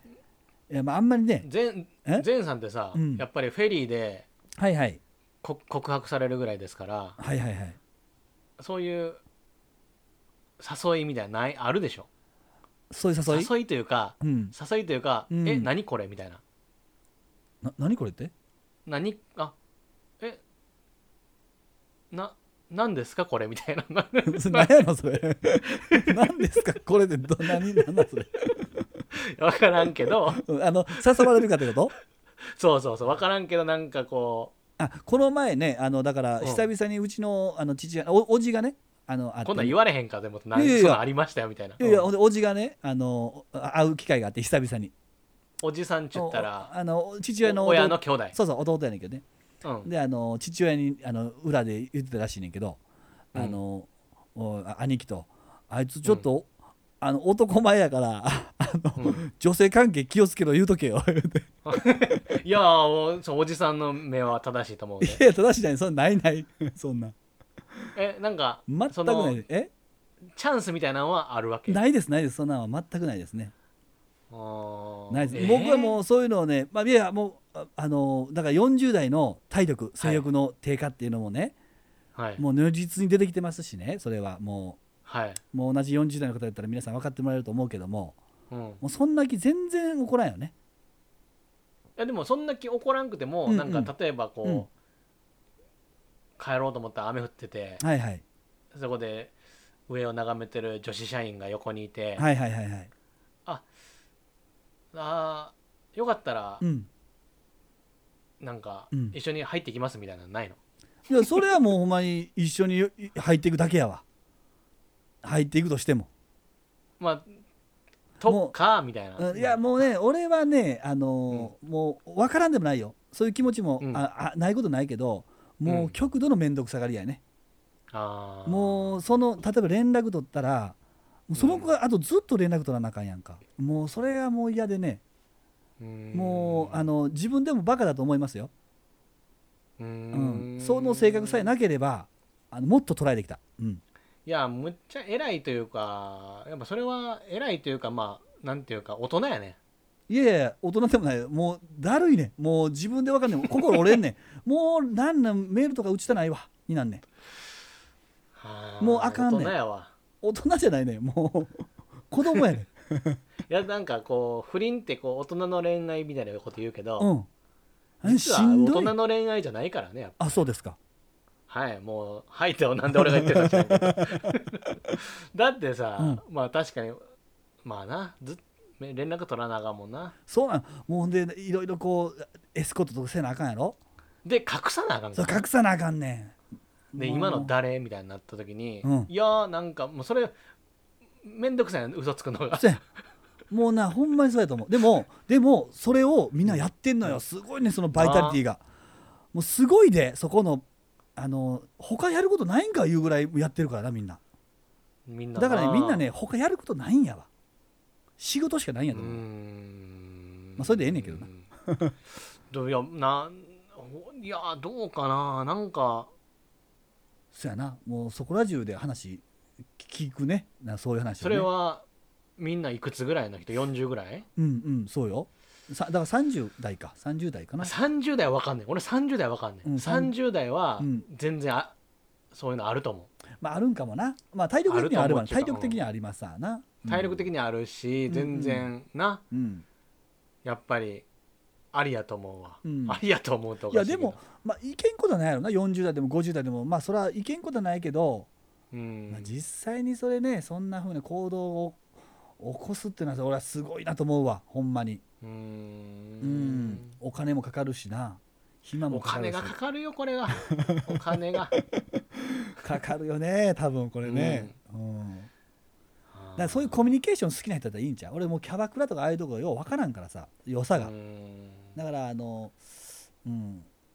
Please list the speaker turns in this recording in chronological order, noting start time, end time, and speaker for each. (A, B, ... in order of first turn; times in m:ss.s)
0:00.7-0:01.5 A
0:01.4-0:04.3 B
0:02.9-0:03.2 A
0:04.6-0:05.0 A
0:05.4-0:07.2 B
0:07.2-0:07.8 A
0:08.6-0:09.2 B
0:10.6-0:12.1 B
0:12.9-0:13.5 A
0:13.3-0:16.4 B
0:14.2-0:14.5 A
0:15.3-0:15.7 A
0:17.6-0:18.3 A
0:18.9-0:19.5 B
0:22.1-0:24.7 B
0:24.3-0:28.7 A
0:25.8-0:26.1 B
0:29.1-0:30.4 B
0:30.4-0:31.9 A
0:32.5-0:34.5 B
0:34.8-0:39.8 A
0:39.4-0:42.1 B
0:40.6-0:41.0 A
0:41.8-0:44.9 A
0:45.6-0:46.7 B
0:46.1-0:49.2 A
0:47.4-0:48.4 B
0:49.6-0:49.9 B
0:49.8-0:52.8 A
0:53.3-0:56.5 A
0:57.0-1:01.5 A
0:59.0-0:59.2 B
1:01.7-1:05.2 B
1:05.0-1:07.2 A
1:08.0-1:09.4 B
1:08.7-1:09.7 A
1:10.4-1:11.8 B
1:11.7-1:13.5 A
1:14.3-1:16.0 B
1:15.1-1:21.6 A
1:20.0-1:20.3 B
1:22.2-1:22.4 B
1:22.4-1:24.8 A
1:25.0-1:25.4 B
1:25.5-1:28.2 A
1:28.5-1:28.8 B
1:28.8-1:30.5 A
1:32.0-1:34.7 B
1:33.5-1:33.9 A
1:36.4-1:37.8 B
1:37.8-1:38.2 A
1:38.7-1:39.3 B
1:39.9-1:42.2 B
1:42.2-1:42.9 A
1:44.9-1:46.6 B
1:46.6-1:46.9 A
1:48.4-1:50.6 B
1:51.1-1:54.0 A
1:55.2-1:56.1 A
1:57.0-1:57.3 B
1:58.2-1:59.6 B
1:58.2-1:58.6 A
1:59.2-2:07.2 A
2:05.7-2:06.0 B
2:07.9-2:09.0 B
2:08.5-2:10.8 A
2:11.3-2:15.0 A
2:11.3-2:11.7 B
2:15.8-2:16.9 B
2:16.1-2:18.5 A
2:19.8-2:21.5 B
2:20.1-2:23.8 A
2:24.3-2:29.6 B
2:30.1-2:37.0 A
2:38.4-2:39.9 B
2:38.8-2:39.6 A
2:40.2-2:43.2 A
2:43.5-2:47.1 B
2:47.0-2:47.3 A
2:48.0-2:48.9 A
2:48.0-2:50.5 B
2:50.2-2:50.8 A
2:51.5-2:57.0 B
2:53.0-2:54.4 A
2:57.6-3:00.2 B
3:00.3-3:03.8 A
3:04.2-3:05.4 B
3:05.2-3:06.4 A
3:07.0-3:07.5 A
3:07.0-3:10.3 B
3:08.8-3:09.1 A
3:11.2-3:12.8 B
3:12.5-3:12.8 A
3:13.5-3:18.6 A
3:16.5-3:17.2 B
3:18.0-3:18.4 B
3:19.3-3:20.6 A
3:21.2-3:24.2 A
3:25.1-3:26.1 B
3:25.4-3:27.3 A
3:28.2-3:29.2 A
3:28.9-3:31.5 B
3:30.6-3:32.0 A
3:32.5-3:36.1 B
3:37.3-3:39.2 A
3:39.8-3:41.5 A
3:41.2-3:41.8 B
3:42.4-3:44.3 B
3:44.4-3:47.7 A
3:47.6-3:51.8 B
3:49.6-3:50.1 A
3:50.8-3:51.0 A
3:52.3-3:53.1 B
3:53.4-3:57.3 A
3:54.7-3:55.8 B
3:56.9-3:59.2 B
3:58.1-3:58.7 A
3:59.3-3:59.6 A
4:00.4-4:01.0 B
4:01.7-4:04.2 B
4:02.6-4:03.0 A
4:03.7-4:08.3 A
4:08.7-4:09.3 B
4:09.1-4:11.8 A
4:12.4-4:15.0 A
4:15.2-4:17.0 B
4:16.2-4:19.6 A
4:18.9-4:21.6 B
4:20.4-4:25.3 A
4:24.0-4:24.6 B
4:26.1-4:26.8 B
4:26.4-4:30.9 A
4:30.8-4:31.8 B
4:31.8-4:32.6 A
4:33.2-4:33.7 A